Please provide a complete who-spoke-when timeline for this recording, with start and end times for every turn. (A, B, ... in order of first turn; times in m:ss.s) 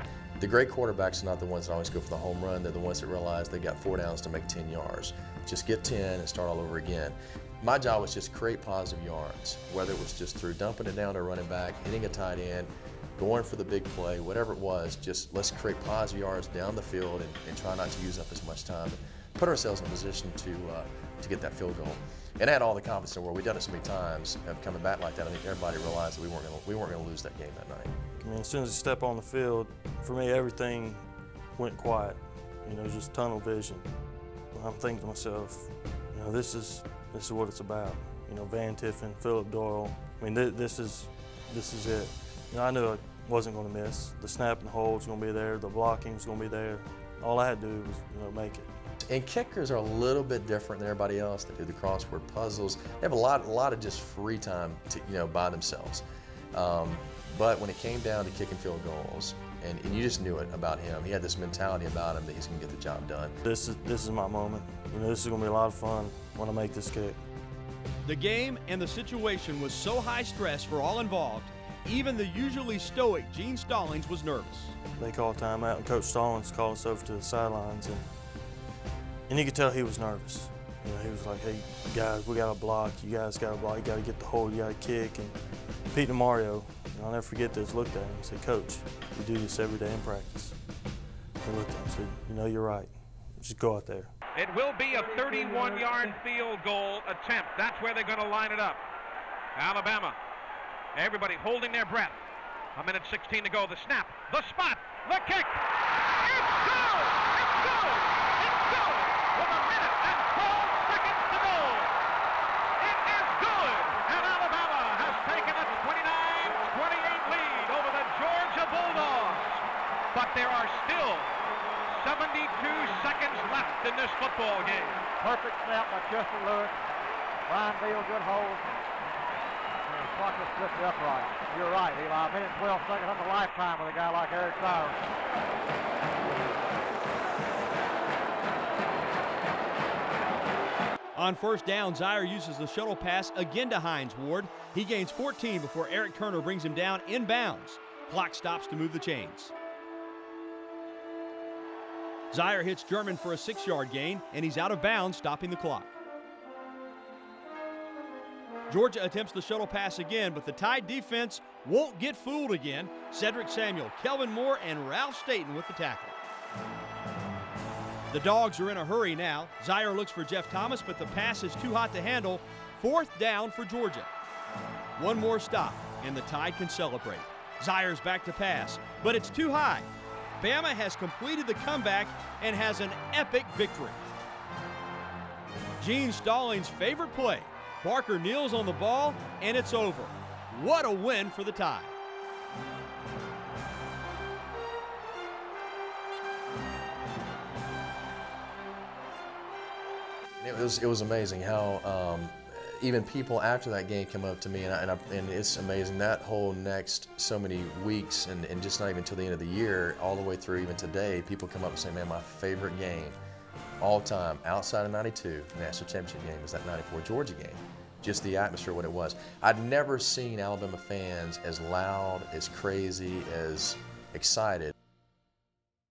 0:00.4-0:27.9 A
0:28.2-0:33.9 B
0:34.5-0:48.7 B
0:49.0-1:03.4 A
1:03.4-1:07.2 B
1:08.0-1:14.8 C
1:15.0-1:18.1 B
1:19.3-1:30.6 B
1:31.4-1:34.1 B
1:34.4-1:38.8 D
1:39.6-1:40.2 D
1:41.0-1:42.2 D
1:42.8-1:45.6 D
1:46.2-1:52.0 D
1:52.8-2:05.1 D
2:05.2-2:06.7 E
2:07.5-2:08.6 E
2:09.9-2:15.0 E
2:21.2-2:29.5 C
2:32.3-2:36.0 C
2:38.7-2:46.2 C
2:48.1-2:54.1 C
2:55.0-2:59.9 C
3:00.4-3:04.0 C
3:05.8-3:11.9 C
3:20.4-3:33.2 A
3:33.8-3:44.7 A